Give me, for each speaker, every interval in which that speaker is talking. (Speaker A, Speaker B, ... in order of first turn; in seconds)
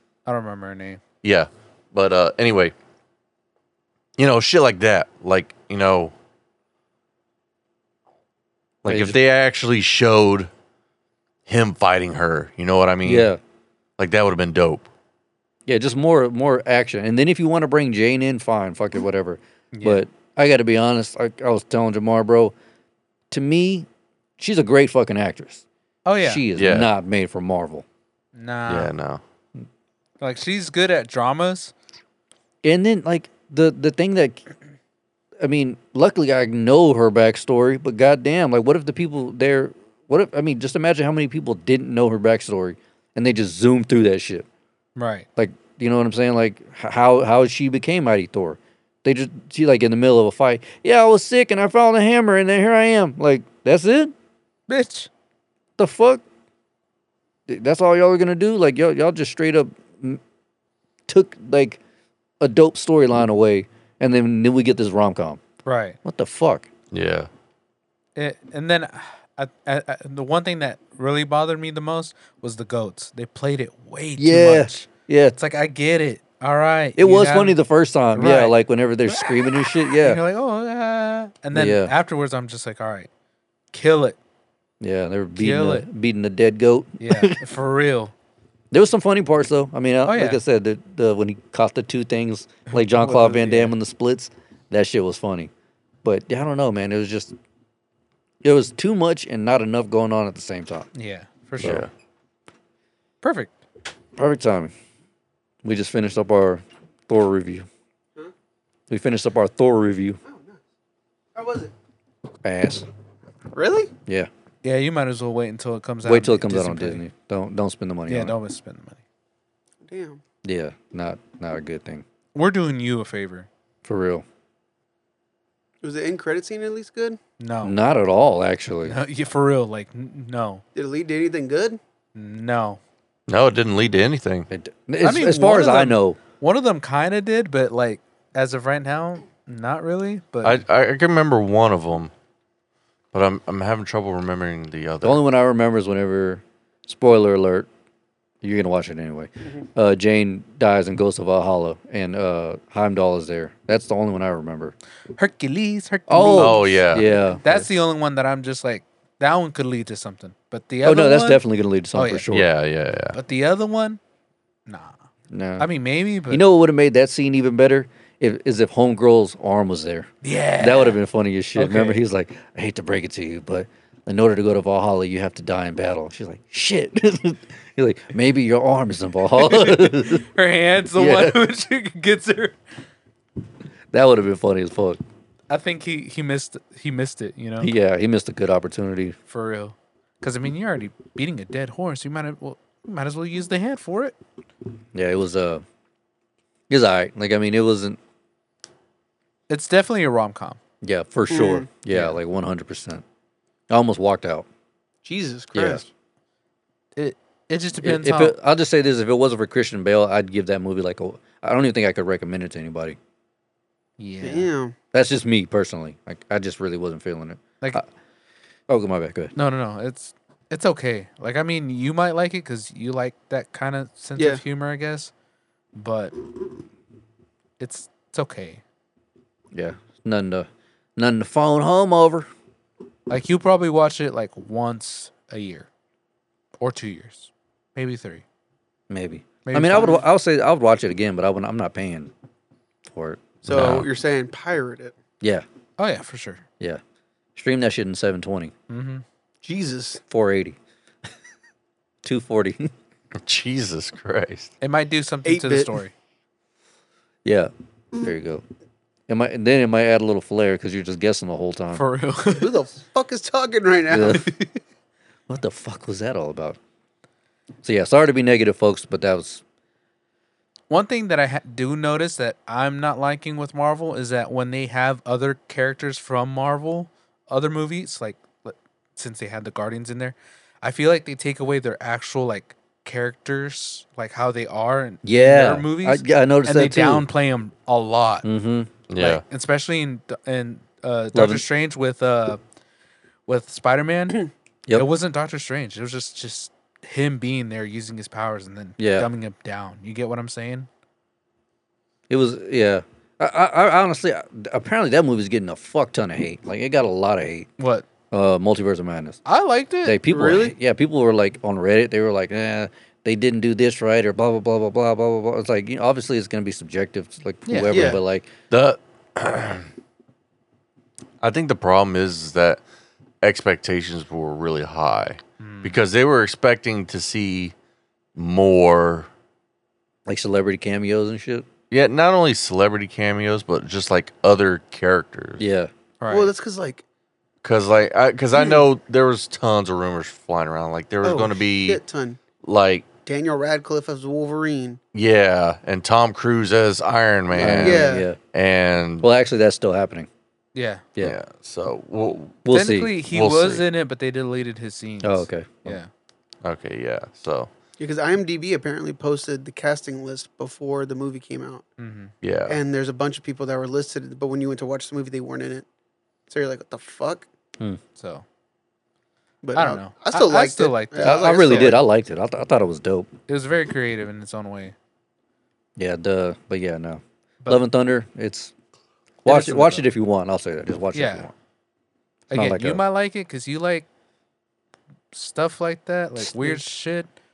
Speaker A: 0.3-1.0, 19.7-20.0, 26.1-26.5, 28.4-28.9, 30.2-31.7, 45.0-45.3, 54.7-55.1, 65.7-66.0, 68.2-74.8, 75.4-77.6, 78.1-78.6, 79.1-83.1, 83.7-84.2, 85.4-85.9, 87.0-88.1, 90.0-90.4, 92.7-93.7, 101.0-101.9, 103.2-103.5, 114.6-117.0, 118.1-119.0, 122.3-123.5, 127.4-127.8, 128.8-130.6, 132.2-132.8, 135.0-140.6, 155.2-156.8, 157.4-161.4, 161.9-162.2, 163.1-164.0, 164.7-165.0, 165.6-166.4, 170.2-171.0, 171.6-172.0, 179.4-182.6, 185.5-187.7, 189.3-194.2, 199.5-200.6, 201.9-202.2, 207.0-208.4, 214.0-214.5, 219.3-225.1, 225.8-226.2, 227.6-228.6, 233.1-235.7, 236.6-238.2, 239.4-240.0, 245.8-246.4, 248.7-249.1, 254.6-255.9, 261.7-262.6, 264.3-264.6, 270.7-288.3, 289.0-292.4, 293.3-300.7, 307.6-307.9, 309.3-310.0, 317.5-317.8, 325.4-325.8, 336.0-336.3, 350.6-350.9, 352.5-355.9, 361.8-362.1, 368.0-368.2, 369.6-371.8, 373.3-374.8, 379.2-379.9, 380.9-381.3, 382.3-383.9, 385.1-387.1
Speaker B: 1.2-2.7, 4.2-6.1, 8.8-10.5, 11.5-13.3, 14.0-14.9, 26.6-26.9, 28.7-29.2, 66.9-67.3, 101.6-101.9, 133.3-134.5, 140.4-142.1, 143.1-145.2, 156.4-157.1, 162.3-163.2, 243.5-243.9, 253.2-254.5, 288.9-289.2, 318.5-319.7, 321.2-322.6, 323.2-327.5, 328.2-329.1, 331.7-335.4, 337.4-341.8, 342.4-342.9, 344.9-349.1, 351.0-352.4, 353.1-353.6, 356.4-357.5, 362.2-362.6
Speaker C: 8.9-9.2, 13.0-13.4, 15.7-22.5, 23.3-23.9, 24.4-25.6, 26.2-27.9, 32.6-34.4, 35.4-44.5, 45.4-54.1, 55.8-56.2, 57.5-60.2, 61.1-61.8, 62.4-65.4, 66.0-66.7, 74.2-75.4, 77.0-80.2, 81.5-81.9, 84.8-87.4, 88.7-95.5, 96.0-97.3, 98.4-100.9, 101.6-101.9, 104.2-104.7, 105.6-107.7, 108.9-110.2, 112.4-112.9, 116.0-118.4, 120.4-122.0, 123.8-124.2, 127.6-129.0, 134.5-136.2, 145.0-147.7, 148.4-154.8, 156.1-157.7, 160.8-162.5, 165.3-165.7, 166.3-180.2, 180.9-181.4, 183.9-185.0, 187.6-189.2, 194.9-195.6, 196.7-198.0, 200.8-203.0, 203.7-204.5, 205.5-205.8, 207.8-213.0, 214.9-217.9, 218.7-219.3, 229.5-232.3, 238.9-242.1, 242.9-243.9, 247.4-248.5, 250.1-250.6, 252.0-252.7, 257.2-258.4, 259.1-261.8, 263.9-264.3, 265.3-266.6, 267.6-269.4, 285.0-287.1, 288.2-288.7, 291.1-291.5, 298.8-299.1, 302.1-307.5, 308.1-309.2, 309.8-318.3, 330.1-331.5, 335.4-335.7, 347.4-348.2, 349.0-350.1, 352.4-352.9, 355.0-355.8, 371.0-373.1, 375.8-378.5, 379.2-381.3, 382.3-382.8, 386.2-386.6
Speaker D: 110.2-110.6, 111.3-111.7, 113.5-113.9, 119.9-120.2, 125.8-127.2, 130.8-131.8, 201.3-201.7, 205.0-205.9, 214.2-214.8, 224.2-224.4, 243.5-244.9, 249.4-250.0, 255.2-255.8, 262.4-264.3, 310.1-310.6, 317.7-318.0, 336.1-336.8, 338.4-338.6, 341.0-342.2, 343.1-344.8, 347.4-348.1, 357.8-361.7, 362.5-365.7, 366.3-367.3, 369.4-371.8